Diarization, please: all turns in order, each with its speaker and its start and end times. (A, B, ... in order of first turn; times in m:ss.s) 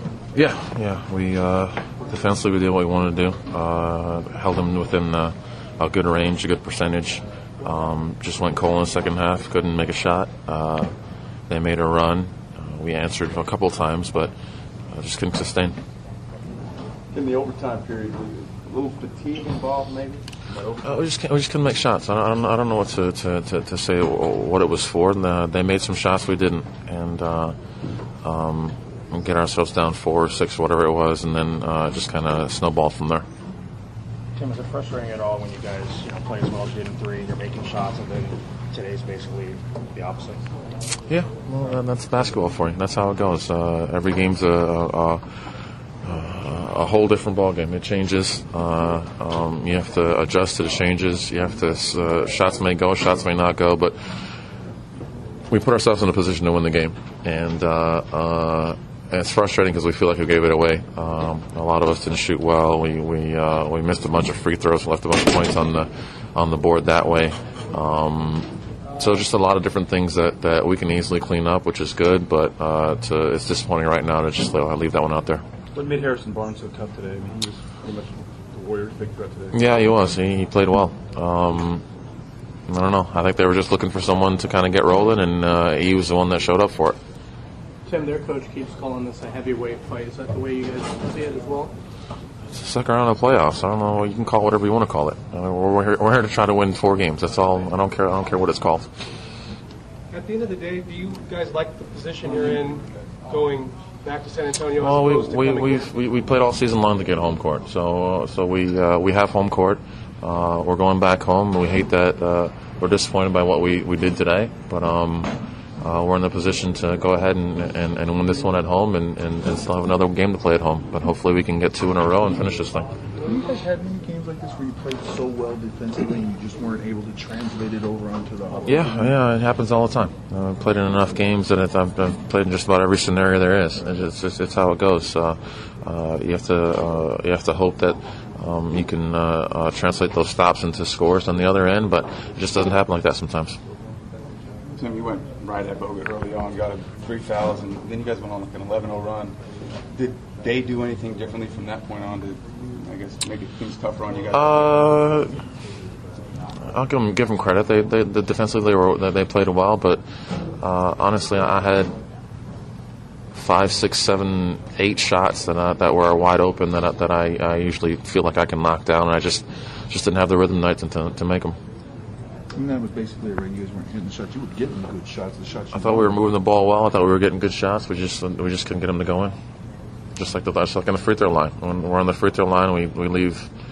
0:00.3-0:10.9 A
0:11.5-0:14.3 A
0:14.9-0:15.8 A
0:17.1-0:20.8 B
0:20.8-0:27.6 A
0:28.2-0:33.2 A
0:34.3-0:40.4 C
0:41.1-0:45.2 A
0:46.0-0:54.0 A
0:55.5-1:15.4 A
1:15.7-1:19.9 B
1:19.5-1:21.8 A
1:22.7-1:27.0 A
1:27.9-1:31.7 D
1:32.5-1:38.9 A
1:40.1-1:45.8 E
1:44.8-2:02.9 A
2:03.2-2:09.2 F
2:08.7-2:23.6 A
2:24.7-2:29.4 B
2:29.9-2:34.8 B
2:34.3-2:35.3 A
2:36.6-2:40.0 A
2:40.6-2:41.9 A
2:43.3-2:51.6 A
2:52.5-2:56.2 F
2:55.7-2:59.3 A
3:00.2-3:03.5 A